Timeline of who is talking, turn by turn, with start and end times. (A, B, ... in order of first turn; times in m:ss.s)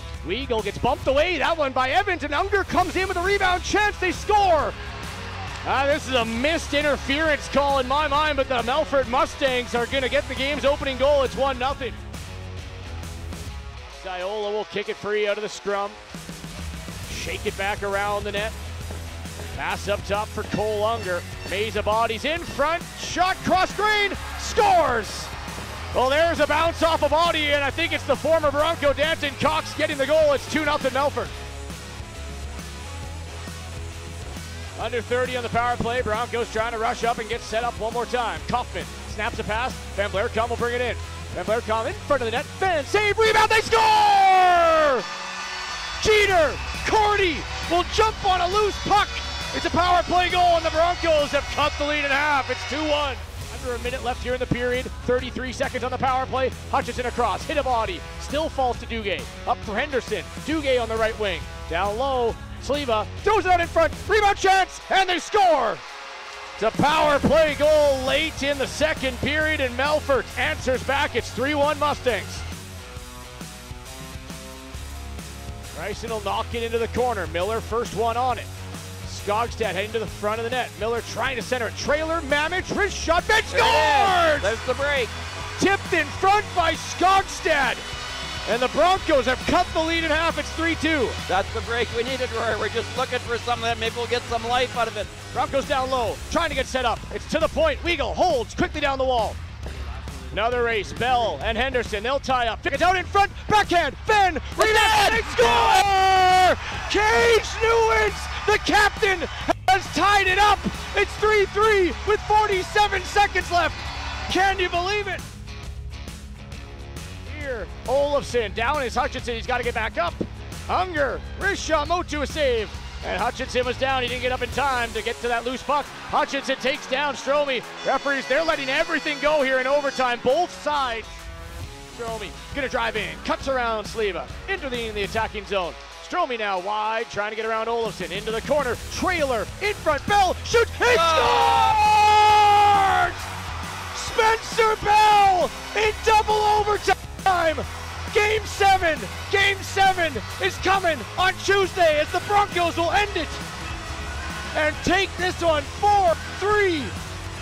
0:00.2-0:04.8 A
0:05.6-0:12.0 A
0:13.9-0:16.0 A
0:17.0-0:18.5 A
0:19.5-0:25.3 A
0:25.9-0:31.3 A
0:34.8-0:45.1 A
0:46.0-1:05.8 A
1:06.6-1:12.4 A
1:15.7-1:18.5 A
1:19.0-1:24.5 A
1:23.5-1:25.1 B
1:25.6-1:27.8 A
1:28.4-1:31.2 A
1:31.3-1:35.1 B
1:35.3-1:39.4 A
1:40.3-1:55.2 A
1:44.6-1:45.8 B
1:57.2-2:11.1 A
2:11.9-2:23.2 A
2:20.8-2:21.8 B
2:23.9-2:33.4 A
2:34.5-2:36.9 A